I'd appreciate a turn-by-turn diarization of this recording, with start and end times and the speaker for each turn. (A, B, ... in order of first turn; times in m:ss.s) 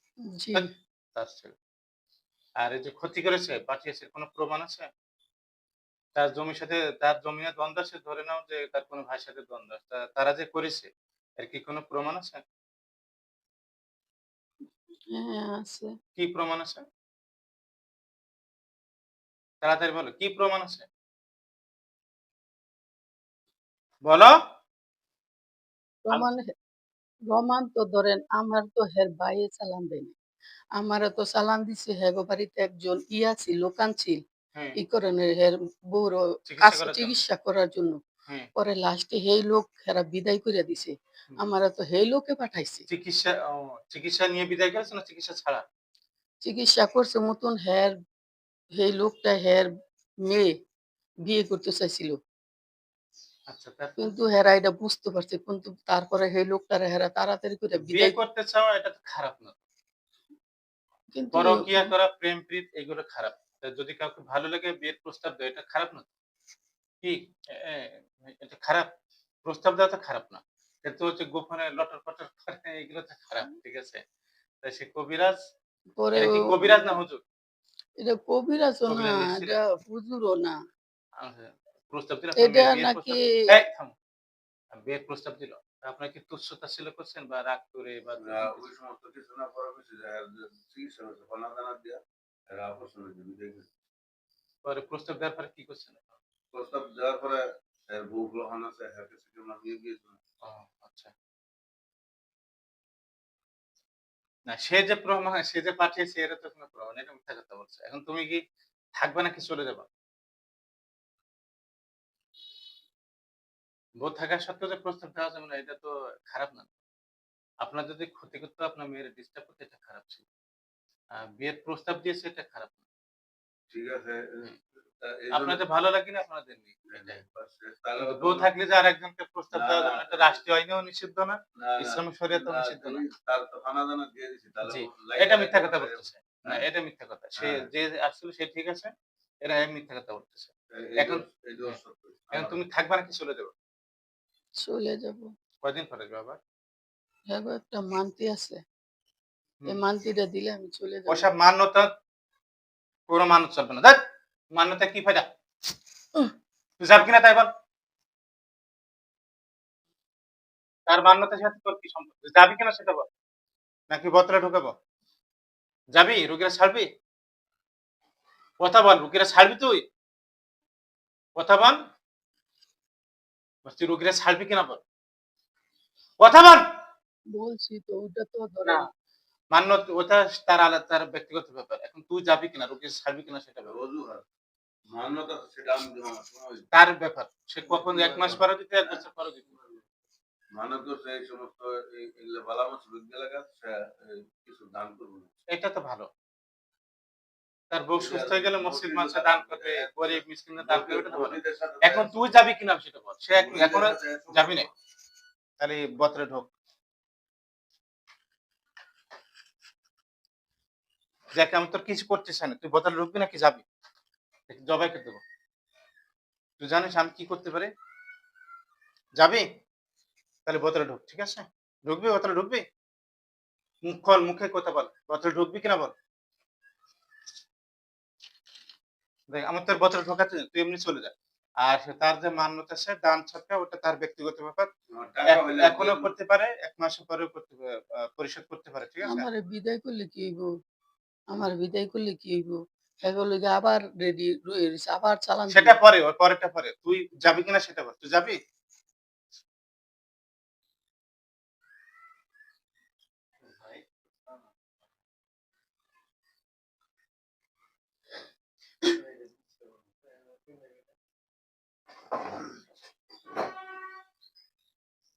0:00.3-0:00.7 A
0:00.5-0:01.6 B
0:02.6-0:04.9 B
0:06.2-0:12.4 B
0:15.1-0:15.9 A
0:16.2-0:16.8 B
0:19.6-0:20.9 B
0:24.0-0:24.4 B
0:26.1-0:26.5 A
0:27.3-0:30.1 A
0:30.8-0:34.2 A
0:34.8-0:38.0 A
0:36.5-0:37.1 B
0:38.6-0:42.8 A
0:42.9-0:45.6 B
0:46.4-0:47.9 A
0:48.8-0:49.7 A
0:50.3-0:50.5 A
0:51.3-0:52.2 A
0:53.5-0:54.1 B
0:54.0-0:58.2 A
0:57.8-0:59.6 B
1:01.2-1:01.9 A
1:01.3-1:06.1 B
1:07.0-1:08.9 B
1:09.4-1:14.0 B
1:14.6-1:15.4 B
1:16.0-1:17.0 A
1:16.2-1:17.2 B
1:18.0-1:20.6 A
1:18.9-1:19.6 B
1:21.2-1:23.9 B
1:22.4-1:23.3 A
1:24.7-1:28.6 B
1:28.2-1:33.7 C
1:34.6-1:36.1 B
1:36.5-1:40.2 C
1:40.4-1:41.1 B
1:44.5-1:48.4 B
1:49.0-1:49.9 B
1:54.0-1:56.8 B
1:57.6-2:00.2 B
2:01.1-2:02.8 B
2:03.7-2:05.6 C
2:05.3-2:07.2 B
2:06.9-2:08.5 C
2:08.0-2:13.0 B
2:09.5-2:10.4 C
2:11.6-2:16.6 C
2:14.6-2:18.9 B
2:17.4-2:17.7 C
2:19.4-2:21.8 B
2:20.7-2:22.6 C
2:22.3-2:23.5 B
2:24.6-2:25.3 A
2:25.6-2:26.4 B
2:27.3-2:28.6 A
2:29.7-2:31.3 A
2:31.1-2:31.9 B
2:33.1-2:34.0 B
2:34.5-2:35.3 B
2:36.8-2:37.5 B
2:40.9-2:43.1 B
2:43.9-2:44.7 B
2:46.0-2:46.9 B
2:48.6-2:49.8 B
2:51.4-2:51.8 B
2:53.6-2:54.8 B
2:56.2-2:56.6 B
2:57.3-2:58.8 A
2:59.5-3:03.8 B
3:03.7-3:04.2 C
3:04.9-3:06.7 C
3:06.7-3:09.6 B
3:07.7-3:09.0 C
3:10.5-3:15.4 C
3:15.5-3:16.1 B
3:17.7-3:24.7 B
3:18.0-3:22.2 C
3:23.4-3:24.7 C
3:25.6-3:26.5 B
3:31.4-3:33.6 B
3:34.5-3:35.2 B
3:36.6-3:37.7 B
3:39.2-3:39.4 B
3:40.5-3:42.6 B
3:43.8-3:45.9 B
3:49.3-3:54.7 B
3:54.9-3:56.1 C
3:55.2-3:59.3 B
3:59.0-4:00.5 A
4:01.3-4:05.8 A
4:05.5-4:08.4 B